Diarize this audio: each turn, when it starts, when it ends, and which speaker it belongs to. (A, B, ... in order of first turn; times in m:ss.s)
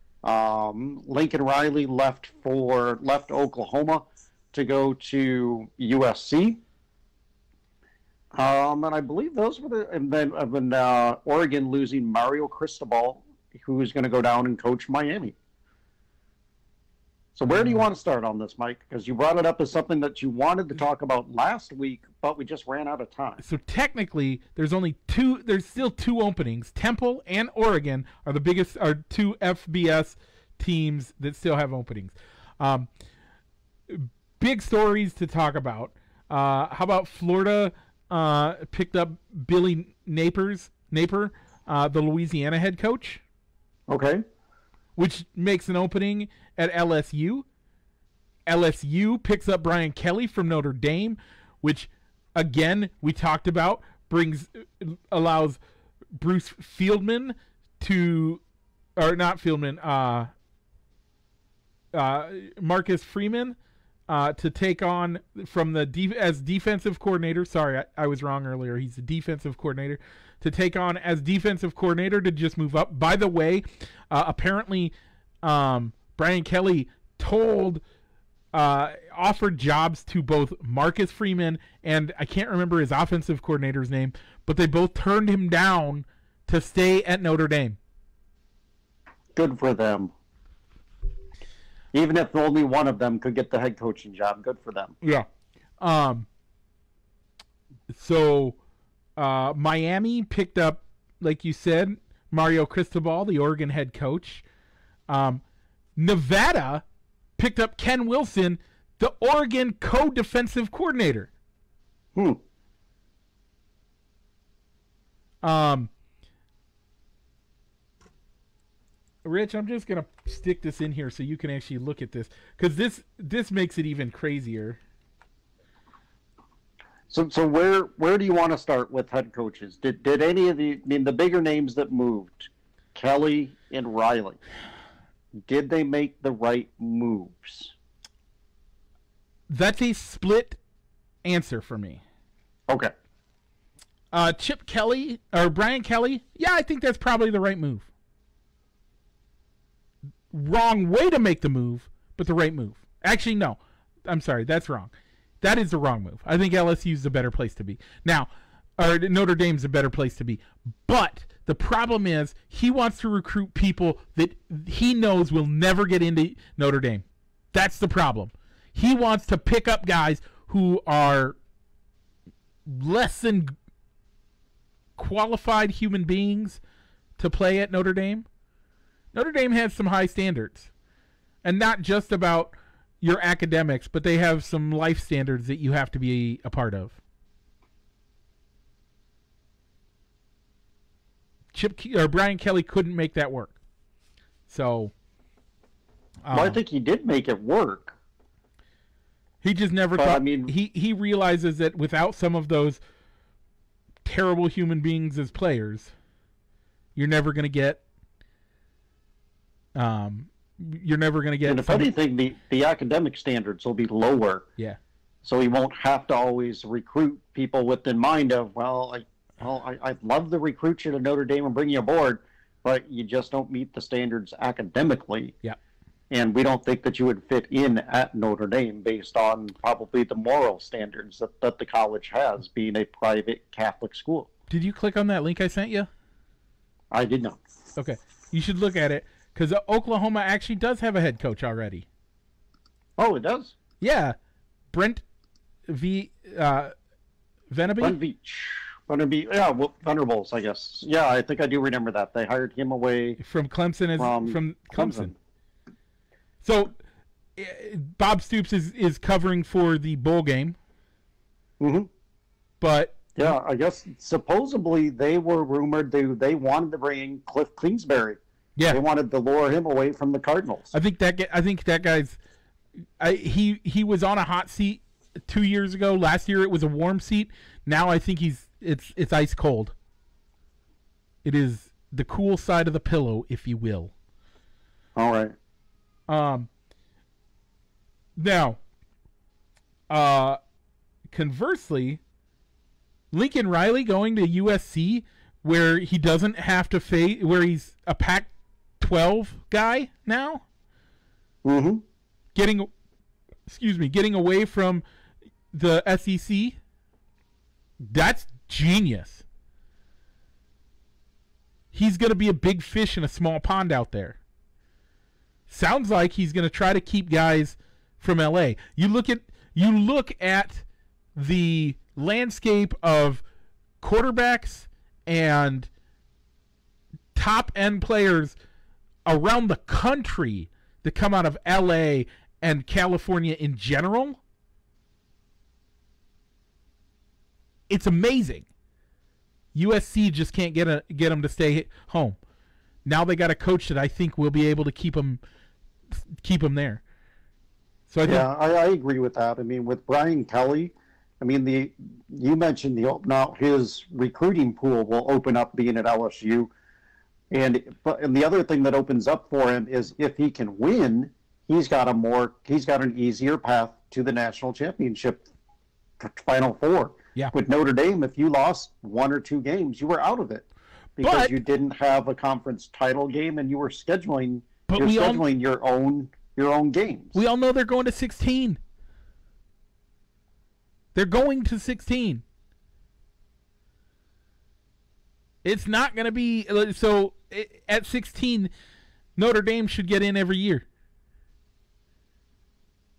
0:00.2-0:06.6 A
0:08.3-0:15.4 A
0:17.3-0:23.4 A
0:17.5-0:17.8 B
0:23.4-0:32.9 B
0:33.9-0:43.2 B
0:43.9-0:44.2 A
0:45.0-0:47.4 B
0:48.5-0:55.6 B
0:56.1-0:58.4 B
0:59.0-1:00.3 B
1:01.9-1:03.6 B
1:04.1-1:17.8 B
1:18.5-1:27.8 B
1:29.4-1:30.1 A
1:31.9-1:35.0 A
1:35.8-1:36.3 B
1:37.9-1:38.6 B
1:39.2-1:44.4 B
1:45.1-1:45.4 B
1:46.0-1:46.8 B
1:47.4-1:51.3 B
1:52.1-1:52.4 A
1:55.4-1:55.9 B
1:59.2-2:04.8 B
2:07.1-2:14.4 A
2:15.4-2:17.7 A
2:19.5-2:20.6 B
2:21.2-2:22.0 B
2:24.1-2:27.9 B
2:30.3-2:51.4 B
2:52.7-2:53.5 B
2:55.0-2:56.6 B
2:57.2-2:58.2 B
2:59.1-3:00.7 B
3:01.4-3:07.0 B
3:11.5-3:13.6 B
3:14.5-3:14.9 B
3:16.2-3:16.6 B
3:16.3-3:17.9 A
3:19.4-3:22.8 B
3:19.9-3:20.5 A
3:24.0-3:25.9 B
3:27.0-3:27.8 B
3:29.8-3:31.9 B
3:31.4-3:34.5 A
3:35.2-3:45.3 A
3:46.1-3:54.3 A
3:54.5-3:55.9 B
3:56.9-3:57.4 A
3:57.8-4:01.8 B
4:03.0-4:03.6 A
4:03.8-4:04.2 B
4:04.7-4:05.0 B
4:05.7-4:06.7 B
4:07.5-4:08.0 B
4:07.8-4:13.2 A
4:13.2-4:15.1 B
4:14.0-4:15.1 A
4:16.4-4:16.7 B
4:17.4-4:20.6 B
4:21.6-4:21.9 A
4:22.6-4:23.4 B
4:23.2-4:30.7 A
4:30.7-4:32.2 B
4:33.0-4:39.7 B
4:41.2-4:43.9 B
4:45.0-4:45.3 A
4:46.1-4:46.5 B
4:48.2-4:48.6 B
4:49.9-4:50.4 B
4:51.1-4:52.0 B
4:53.1-5:00.4 B
5:01.4-5:01.8 A
5:02.3-5:02.7 B
5:03.5-5:04.8 B
5:05.5-5:06.6 B
5:07.8-5:09.2 B
5:11.7-5:14.2 B
5:15.5-5:20.6 B
5:21.2-5:23.2 B
5:23.8-5:25.7 B
5:27.1-5:28.4 B
5:29.0-5:34.2 B
5:37.7-5:38.4 B
5:39.5-5:42.2 B
5:42.8-5:45.2 B
5:46.2-5:46.8 B
5:47.9-5:48.3 B
5:48.0-5:56.5 A
5:57.3-6:05.2 A
6:06.0-6:10.4 A
6:11.0-6:17.2 A
6:11.0-6:11.4 B
6:14.7-6:15.2 B
6:17.1-6:18.6 B
6:20.9-6:22.2 B
6:25.4-6:28.5 B
6:29.2-6:30.6 B